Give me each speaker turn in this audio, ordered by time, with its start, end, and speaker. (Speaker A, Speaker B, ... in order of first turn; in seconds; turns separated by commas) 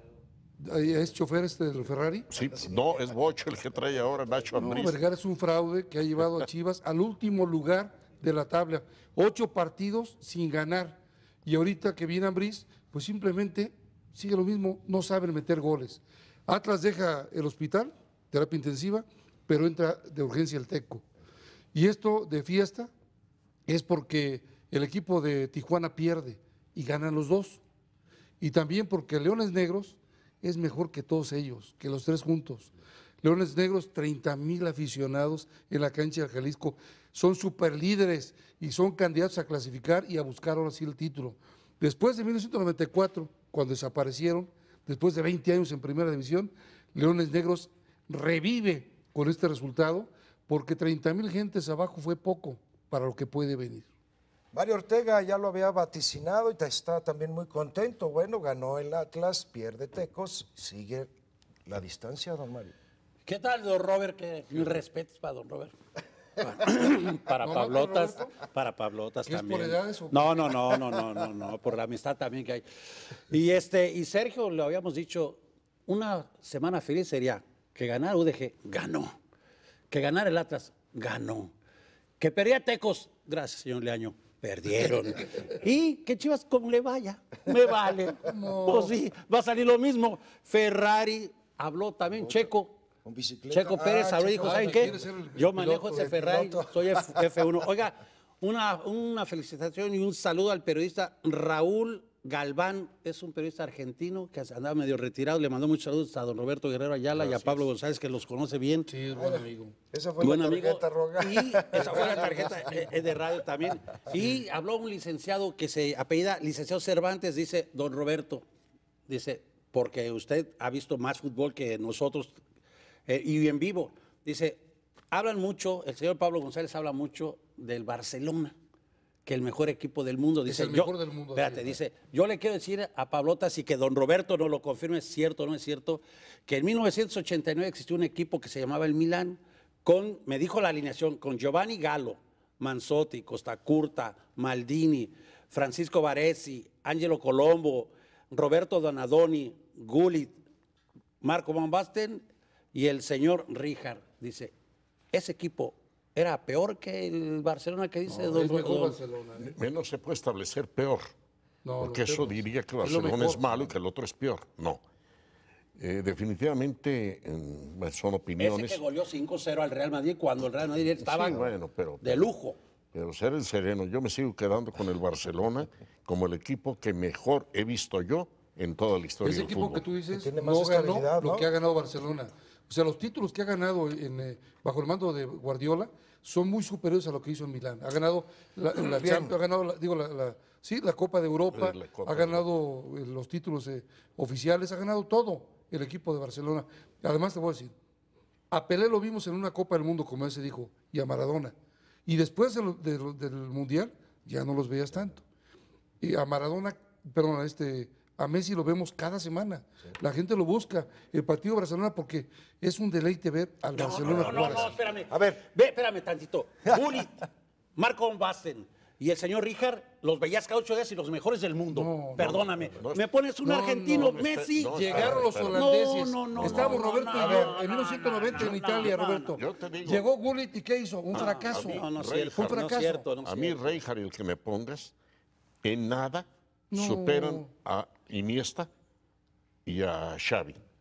Speaker A: 0.6-2.3, Speaker B: 2.3-5.0, Speaker A: 4.5-21.0, Speaker A: 21.7-22.9, Speaker A: 23.6-27.6, Speaker A: 28.4-32.7, Speaker A: 33.2-53.9, Speaker C: 54.5-61.1, Speaker C: 61.6-62.7, Speaker D: 63.2-65.7, Speaker D: 66.4-72.7, Speaker A: 67.4-68.3, Speaker A: 69.2-70.5, Speaker D: 73.3-79.2, Speaker D: 79.9-81.5, Speaker D: 82.2-92.8, Speaker A: 88.2-89.0, Speaker C: 93.0-95.1, Speaker D: 93.5-108.9, Speaker A: 94.4-96.1, Speaker C: 95.9-97.2, Speaker B: 107.1-107.7, Speaker A: 108.9-109.7, Speaker C: 109.1-112.8, Speaker D: 110.2-118.4, Speaker D: 119.1-122.3, Speaker D: 123.1-128.6, Speaker D: 129.2-150.4, Speaker A: 130.4-131.8, Speaker D: 151.2-154.5, Speaker D: 155.1-159.0, Speaker A: 158.1-159.5, Speaker B: 159.4-161.1, Speaker A: 161.6-163.4, Speaker B: 161.8-164.8, Speaker B: 165.8-168.8, Speaker D: 168.4-171.5, Speaker B: 171.0-172.2, Speaker D: 172.0-172.6, Speaker B: 172.9-179.8, Speaker A: 179.2-197.7, Speaker C: 180.1-181.5, Speaker C: 188.8-189.3, Speaker B: 191.5-192.4, Speaker A: 198.5-201.5, Speaker A: 202.1-205.2, Speaker A: 206.0-214.8, Speaker D: 213.8-229.4, Speaker C: 214.0-215.4, Speaker B: 214.2-214.6, Speaker C: 216.7-217.0, Speaker A: 221.7-222.4, Speaker B: 222.2-223.0, Speaker A: 223.4-224.2, Speaker B: 223.9-225.6, Speaker A: 224.7-231.8, Speaker B: 226.3-226.8, Speaker C: 227.1-227.6, Speaker B: 229.3-230.1, Speaker D: 231.1-233.8, Speaker B: 231.2-232.6, Speaker A: 232.4-233.1, Speaker B: 233.2-234.9, Speaker B: 235.6-238.7, Speaker A: 236.7-237.5, Speaker B: 239.7-240.6